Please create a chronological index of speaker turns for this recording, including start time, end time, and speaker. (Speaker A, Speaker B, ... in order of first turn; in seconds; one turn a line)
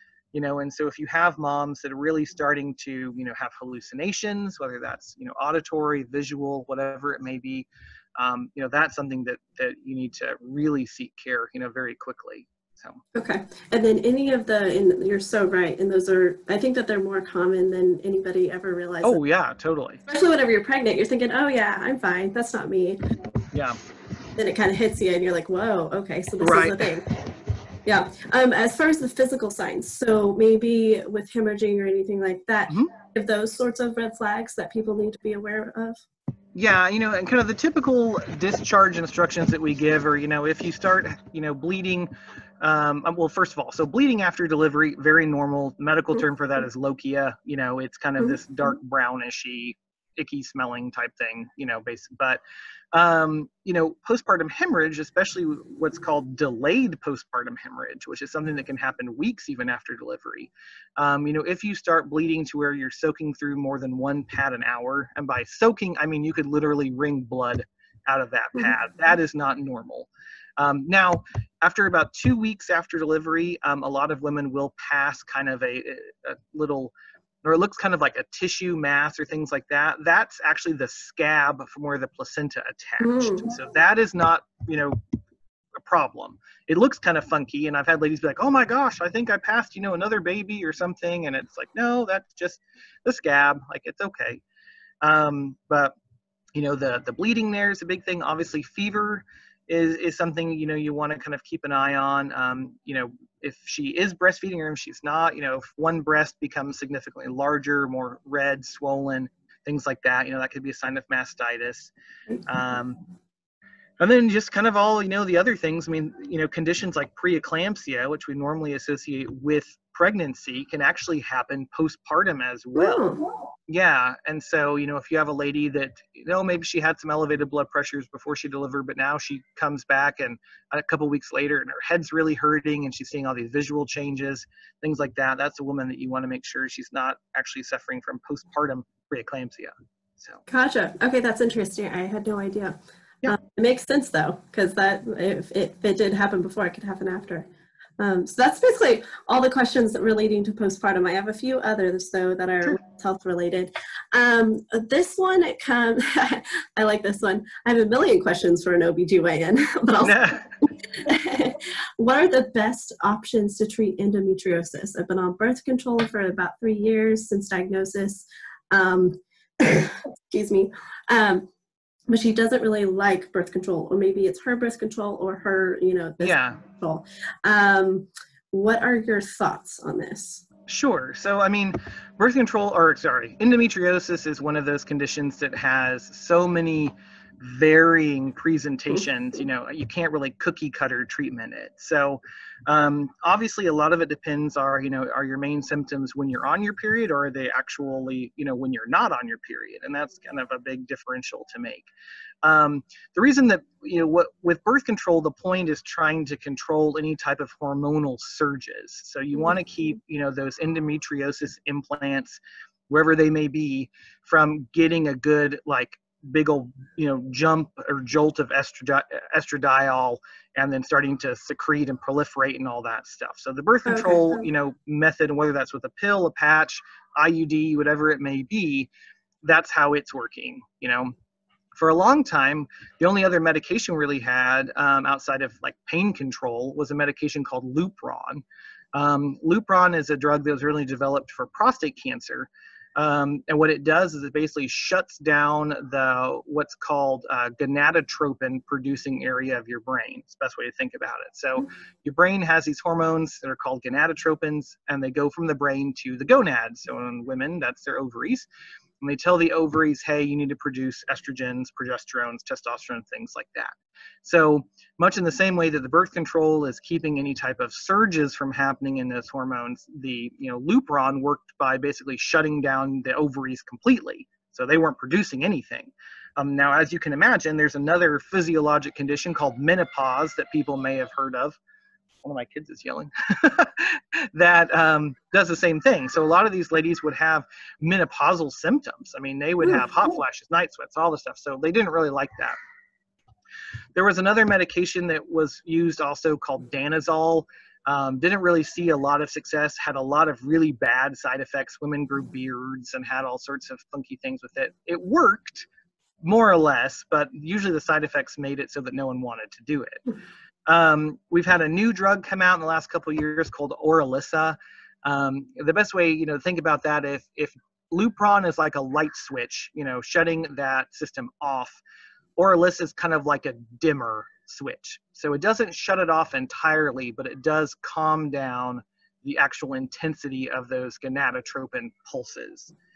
Speaker A: 0.3-13.0
Speaker B: 13.2-19.2
Speaker A: 19.0-20.0
Speaker B: 20.1-23.0
Speaker A: 23.5-23.8
Speaker B: 24.4-27.1
Speaker A: 26.4-26.9
Speaker B: 27.9-36.0
Speaker A: 36.5-52.4
Speaker A: 52.9-85.0
Speaker B: 83.0-83.5
Speaker A: 85.8-94.4
Speaker A: 95.0-95.9
Speaker A: 96.5-111.9
Speaker A: 112.5-113.0
Speaker A: 114.0-123.0
Speaker B: 122.8-123.2
Speaker A: 123.7-140.4
Speaker B: 140.5-147.5
Speaker B: 148.0-171.5
Speaker A: 160.0-160.5
Speaker B: 172.1-180.4
Speaker A: 176.2-176.6
Speaker A: 180.7-201.9
Speaker A: 202.4-228.9
Speaker B: 223.9-224.4
Speaker A: 229.4-231.1
Speaker A: 231.7-258.5
Speaker A: 259.0-281.6
Speaker A: 282.2-292.6
Speaker A: 294.0-305.7
Speaker A: 306.2-310.0
Speaker A: 310.7-321.8
Speaker A: 322.4-332.7